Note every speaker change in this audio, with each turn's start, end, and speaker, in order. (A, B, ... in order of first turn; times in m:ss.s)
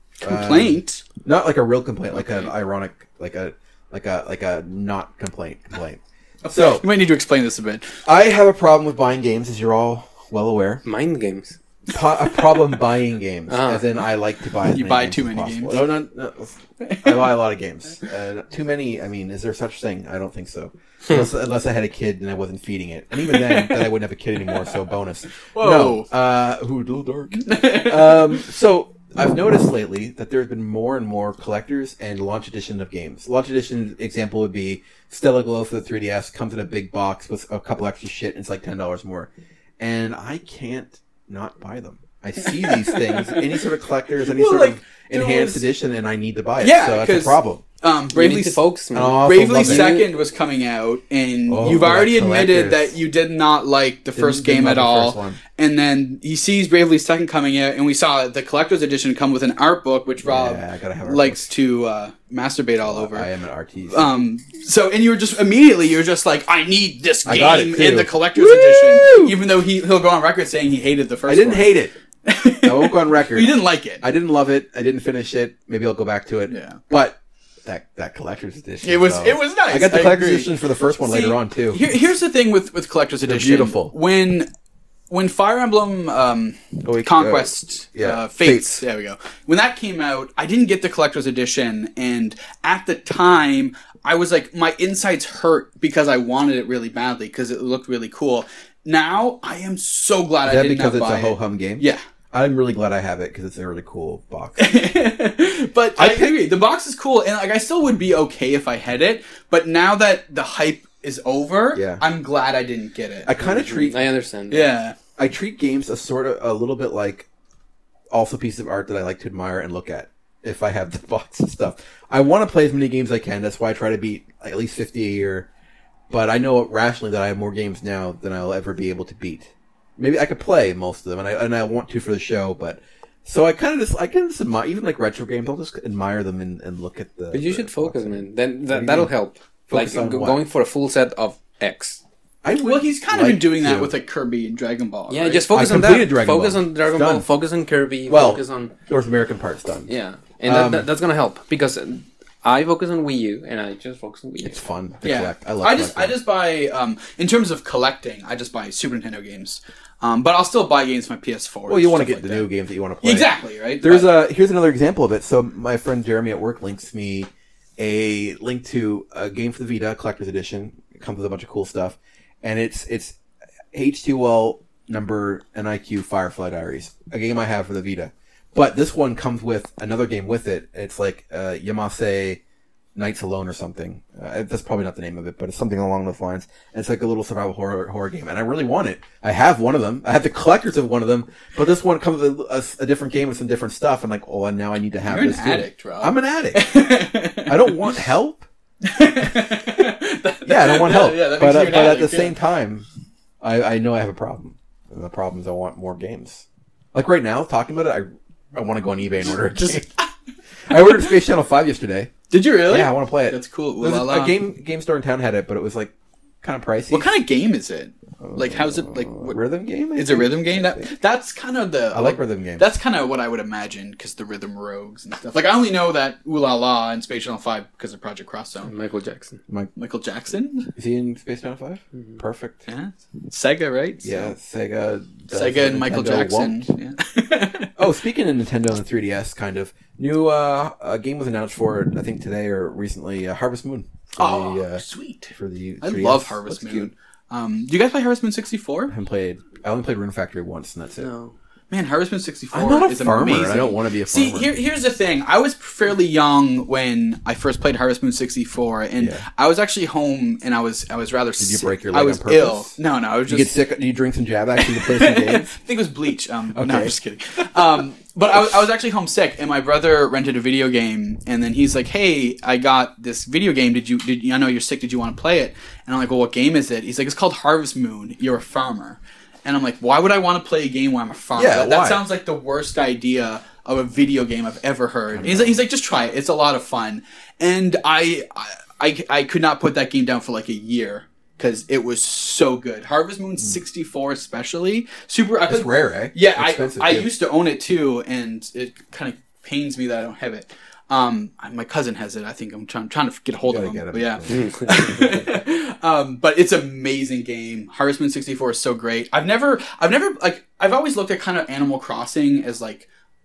0:00.2-0:01.0 A
0:00.2-0:06.8 B
0:06.4-0:07.9 A
0:08.0-0:10.8 B
0:10.8-0:11.6 C
0:11.9-0:47.6 B
0:13.5-0:13.8 C
0:14.7-0:15.8 A
0:16.8-0:17.4 A
0:23.2-0:23.9 A
0:24.4-0:24.8 A
0:25.5-0:26.1 A
0:27.4-0:28.4 A
0:42.4-0:43.6 A
0:44.2-0:45.6 A
0:46.6-1:03.3 A
0:48.1-0:50.0 C
0:48.9-0:50.0 B
0:51.5-0:52.9 B
0:54.2-0:55.4 B
1:00.2-1:01.5 B
1:02.8-1:04.1 B
1:03.9-1:14.0 A
1:07.2-1:09.3 B
1:11.3-1:11.9 B
1:12.6-1:21.8 B
1:16.5-1:16.8 A
1:18.8-1:24.5 A
1:23.2-1:23.9 B
1:25.1-1:42.0 A
1:26.8-1:28.8 B
1:40.4-1:44.7 B
1:44.6-1:53.3 A
1:46.0-1:46.4 B
1:51.7-1:52.0 B
1:53.2-1:54.0 B
1:53.4-1:54.7 C
1:54.5-1:55.0 A
1:55.2-1:57.3 B
1:58.1-2:05.5 B
2:06.1-2:19.1 B
2:17.3-2:22.0 C
2:19.7-2:20.4 B
2:22.4-2:23.9 B
2:22.6-2:25.5 A
2:25.1-2:28.7 C
2:25.5-2:27.3 B
2:28.1-2:29.9 B
2:29.9-2:34.6 C
2:30.4-2:30.9 B
2:34.4-2:36.2 B
2:35.0-2:42.5 A
2:41.7-2:53.2 B
2:43.0-2:44.1 A
2:53.7-3:02.4 B
3:03.0-3:16.7 B
3:15.1-3:18.0 A
3:17.4-3:18.4 B
3:18.8-3:22.4 A
3:20.4-3:22.9 B
3:23.4-3:29.9 B
3:29.3-3:30.1 A
3:30.7-3:32.1 B
3:30.7-3:31.1 A
3:32.3-3:34.4 A
3:32.6-3:37.1 B
3:36.9-3:39.4 A
3:38.2-3:40.9 B
3:39.9-3:48.7 A
3:41.9-3:42.6 B
3:48.6-3:49.4 C
3:49.8-3:50.7 A
3:50.7-3:52.6 B
3:52.7-3:54.3 A
3:54.0-3:56.6 B
3:55.3-3:57.7 A
3:57.8-4:06.9 B
4:04.2-4:08.9 A
4:08.9-4:11.1 B
4:11.0-4:11.3 C
4:11.7-4:23.6 A
4:12.5-4:14.5 B
4:19.0-4:19.2 B
4:21.4-4:25.5 B
4:24.6-5:12.9 A
4:26.5-4:26.9 B
4:41.4-4:42.0 B
4:45.1-4:45.6 B
4:55.5-4:57.1 B
5:03.4-5:04.5 B
5:04.3-5:05.2 C